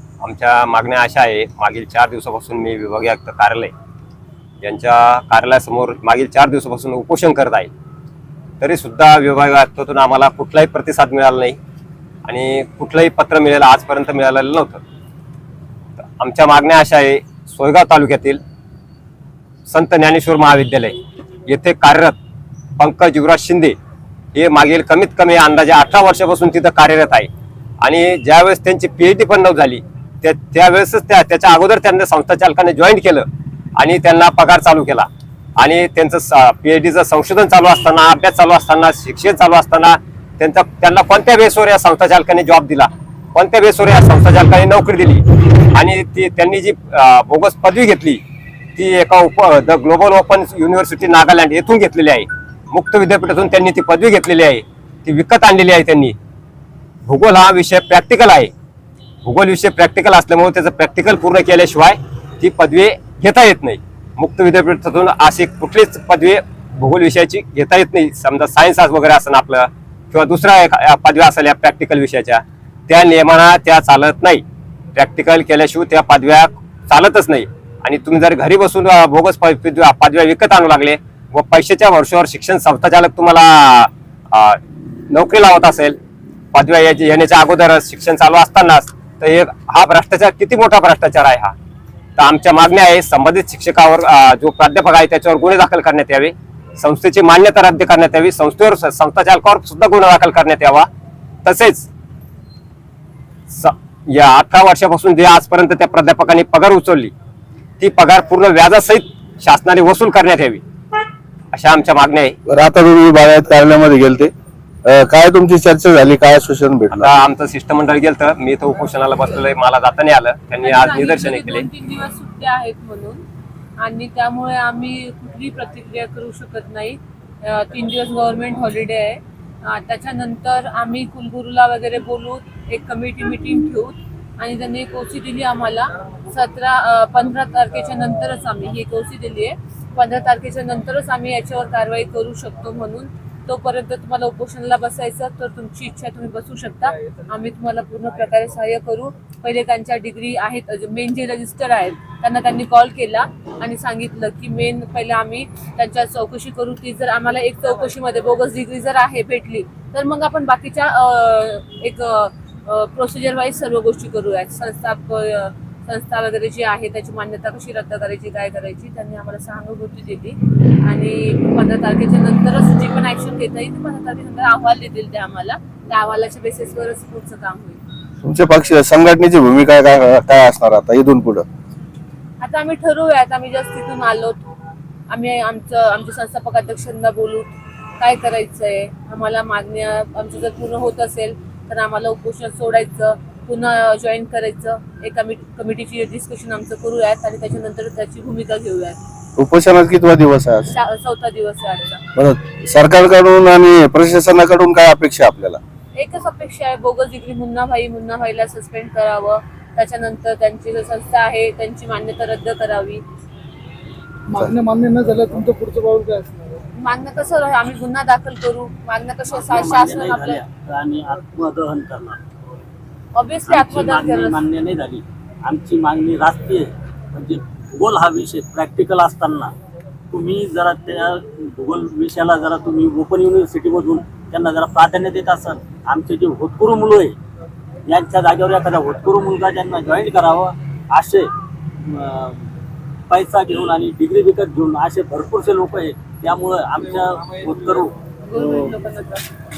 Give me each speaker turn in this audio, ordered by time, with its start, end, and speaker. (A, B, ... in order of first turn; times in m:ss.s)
0:00.2-0:03.7 A
0:04.6-0:07.7 A
0:08.6-0:11.6 A
0:12.3-0:14.8 A
0:16.0-0:18.4 A
0:19.7-0:21.0 A
0:21.5-0:22.2 A
0:22.8-0:23.8 A
0:24.4-0:27.3 A
0:27.8-0:33.2 A
0:33.8-0:48.2 A
0:48.8-0:56.2 A
0:57.1-0:58.5 A
0:59.2-1:14.4 A
1:15.0-1:24.6 A
1:25.1-1:26.0 A
1:26.5-1:31.5 A
1:32.2-1:40.9 A
1:41.4-1:41.9 A
1:43.5-1:47.1 A
1:47.8-1:50.6 A
1:51.5-1:52.4 A
1:52.5-1:54.3 B
1:54.8-1:57.1 B
1:56.9-2:01.7 A
2:00.6-2:03.2 C
2:03.8-2:57.8 C
2:58.2-3:01.5 B
3:02.4-3:04.4 C
3:05.1-3:19.0 C
3:19.4-3:20.7 B
3:20.7-3:22.0 C
3:22.2-3:25.6 B
3:26.0-3:33.0 C
3:34.4-3:36.3 D
3:36.8-3:40.4 C
3:39.3-3:42.2 E
3:43.2-3:44.4 C
3:43.5-3:49.5 E
3:50.1-3:57.2 E
3:57.9-4:01.3 E
4:01.8-4:02.5 E
4:03.1-4:08.7 E
4:08.2-4:09.3 C